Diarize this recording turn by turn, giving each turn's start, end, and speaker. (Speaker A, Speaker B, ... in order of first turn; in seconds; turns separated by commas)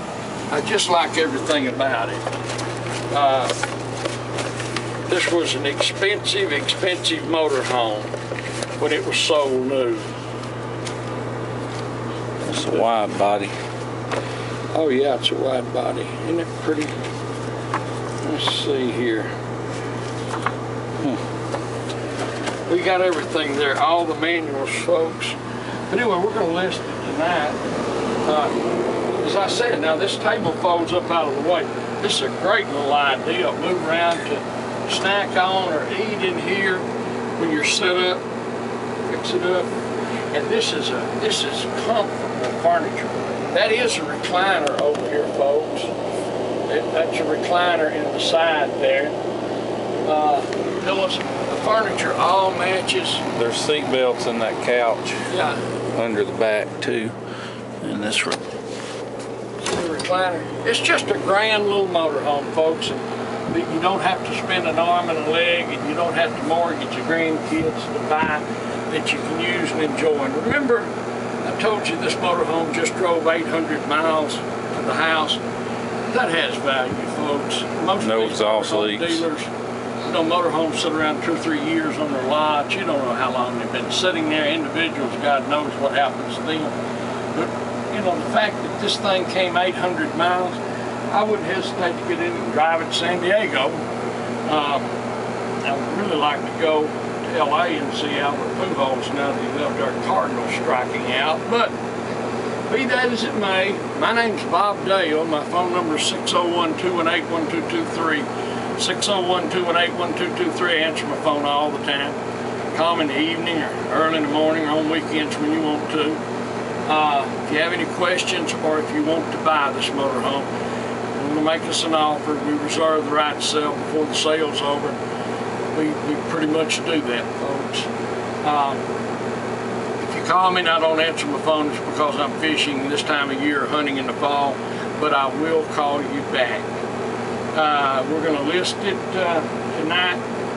Speaker A: 0.5-2.2, Speaker A: 3.1-3.5, Speaker A: 5.1-8.1, Speaker A: 8.8-10.1, Speaker B: 12.4-13.6, Speaker A: 14.7-17.0, Speaker A: 18.2-19.3, Speaker A: 22.7-25.4, Speaker A: 25.9-27.6, Speaker A: 28.2-28.6, Speaker A: 29.2-38.2, Speaker A: 39.1-39.7, Speaker A: 40.3-45.9, Speaker A: 46.7-49.2, Speaker A: 50.0-53.2, Speaker B: 53.3-55.3, Speaker A: 55.3-55.6, Speaker B: 56.0-57.2, Speaker B: 57.8-58.4, Speaker A: 59.6-70.9, Speaker A: 71.4-75.4, Speaker A: 76.1-79.5, Speaker B: 78.0-79.2, Speaker A: 80.1-86.8, Speaker A: 87.3-90.6, Speaker A: 91.1-93.8, Speaker A: 94.5-94.9, Speaker A: 95.7-101.8, Speaker A: 102.7-112.2, Speaker A: 112.7-116.2, Speaker A: 116.9-120.5, Speaker A: 121.1-125.0, Speaker A: 125.7-127.9, Speaker A: 128.4-128.8, Speaker A: 130.0-136.7, Speaker A: 137.5-140.2